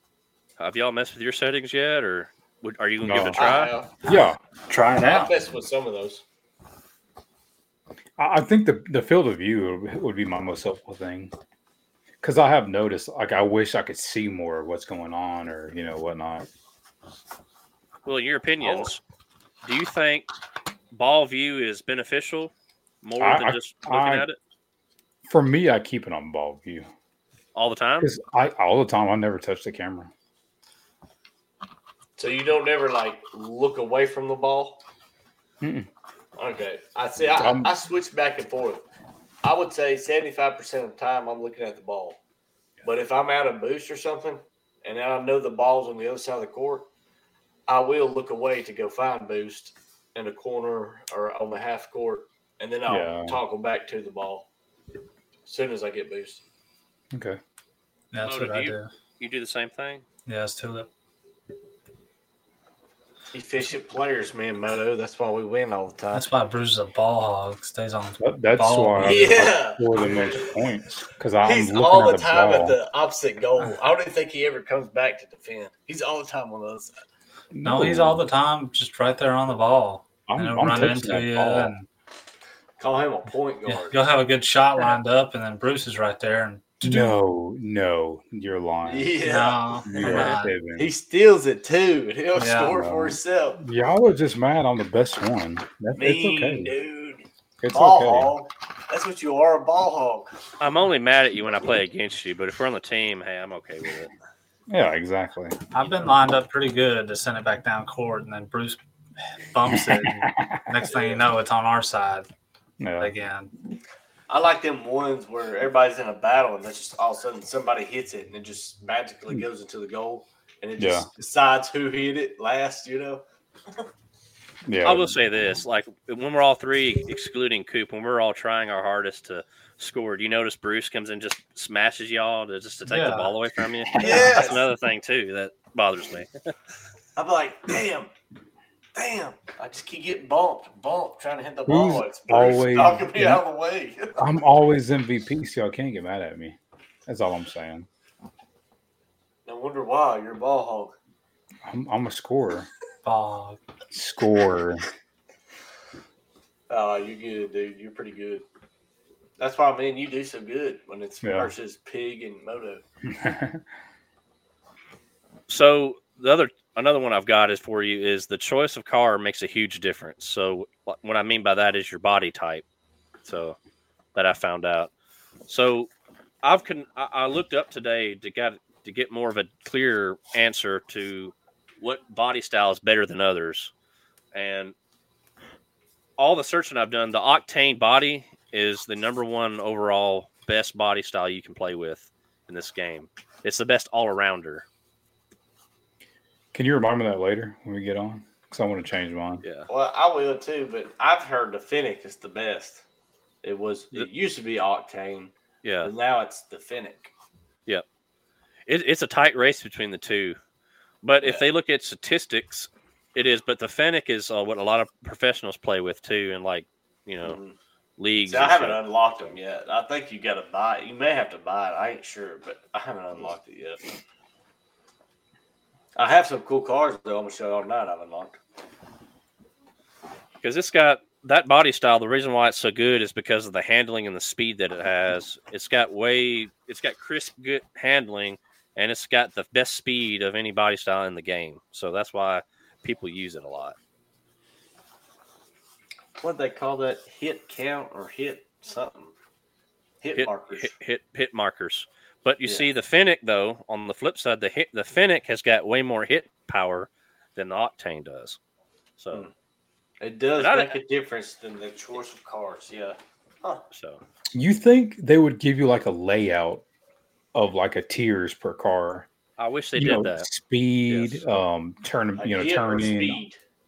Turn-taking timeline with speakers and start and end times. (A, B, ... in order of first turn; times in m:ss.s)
0:00.6-0:03.7 A
0:03.0-0:03.4 B
0:03.4-0:04.0 C
0:04.0-0:04.4 B
0:04.1-0:05.3 D
0:05.0-0:06.2 C
0:08.2-0:11.3 B
0:12.2-0:16.5 B
0:18.0-0:19.0 A
0:18.6-0:18.9 C
0:19.6-0:20.3 A
0:20.9-0:24.4 A
0:23.2-0:24.2 B
0:25.2-0:26.9 B
0:27.5-0:28.1 A
0:28.0-0:30.1 B
0:32.2-0:34.8 C
0:35.6-0:35.9 B
0:36.4-0:38.8 C
0:37.4-0:37.7 B
0:39.4-0:42.2 C
0:42.8-0:46.9 C
0:47.7-0:54.5 C
0:52.9-0:53.4 B
0:55.4-0:56.4 C
0:57.1-0:57.4 B
0:58.1-0:58.9 D
0:58.2-1:00.0 A
1:00.2-1:00.9 D
1:03.3-1:06.3 C
1:06.1-1:09.3 D
1:08.2-1:12.8 B
1:09.0-1:10.3 C
1:11.4-1:16.9 C
1:17.5-1:18.2 B
1:17.6-1:21.9 D
1:20.3-1:21.7 B
1:22.8-1:24.0 C
1:23.7-1:27.1 D
1:26.8-1:30.9 B
1:28.8-1:33.6 C
1:29.2-1:30.5 D
1:32.3-1:32.8 D
1:32.7-1:36.7 B
1:36.0-1:40.3 C
1:37.6-1:38.3 B
1:40.6-1:44.1 A
1:44.7-1:45.6 B
1:45.7-1:48.8 D
1:45.8-1:46.1 A
1:49.5-1:52.3 D
1:49.7-1:50.7 B
1:50.9-1:51.2 C
1:52.8-1:53.1 B
1:53.0-1:53.5 D
1:54.3-2:03.9 C
2:00.8-2:01.1 B
2:04.6-2:05.2 B
2:04.8-2:16.3 A
2:12.8-2:13.3 D
2:13.9-2:14.4 B
2:14.0-2:14.6 C
2:17.2-2:18.1 C
2:18.9-2:24.2 C
2:21.7-2:23.4 B
2:24.2-2:27.9 B
2:29.4-2:30.9 C
2:31.6-2:32.7 B
2:33.0-2:33.6 D
2:33.9-2:34.8 B
2:36.7-2:38.4 C
2:39.4-2:42.8 C
2:41.2-2:41.5 B
2:43.1-2:43.6 B
2:45.5-2:52.6 A
2:53.2-2:53.6 A
2:54.1-2:54.9 A
2:55.5-2:55.9 A
2:56.4-3:03.7 A
3:04.3-3:04.7 A
3:06.2-3:14.6 A
3:16.5-3:19.4 B
3:19.4-3:19.7 A
3:19.7-3:22.8 C
3:23.4-3:27.1 C
3:25.6-3:25.9 A
3:28.7-3:30.4 A
3:31.0-3:37.4 A
3:37.2-3:37.6 C
3:38.0-3:39.3 A
3:38.3-3:43.8 C
3:46.0-3:48.4 C
3:50.4-4:03.8 A
4:06.2-4:09.1 C
4:10.0-4:10.7 C
4:10.1-4:18.4 A
4:19.0-4:19.2 A
4:20.0-4:23.6 C
4:20.4-4:20.8 A
4:23.7-4:24.0 A
4:24.3-4:26.6 B
4:27.3-4:29.1 B
4:29.4-4:30.3 A
4:29.7-4:33.2 B
4:30.9-4:31.2 A
4:32.2-4:33.4 C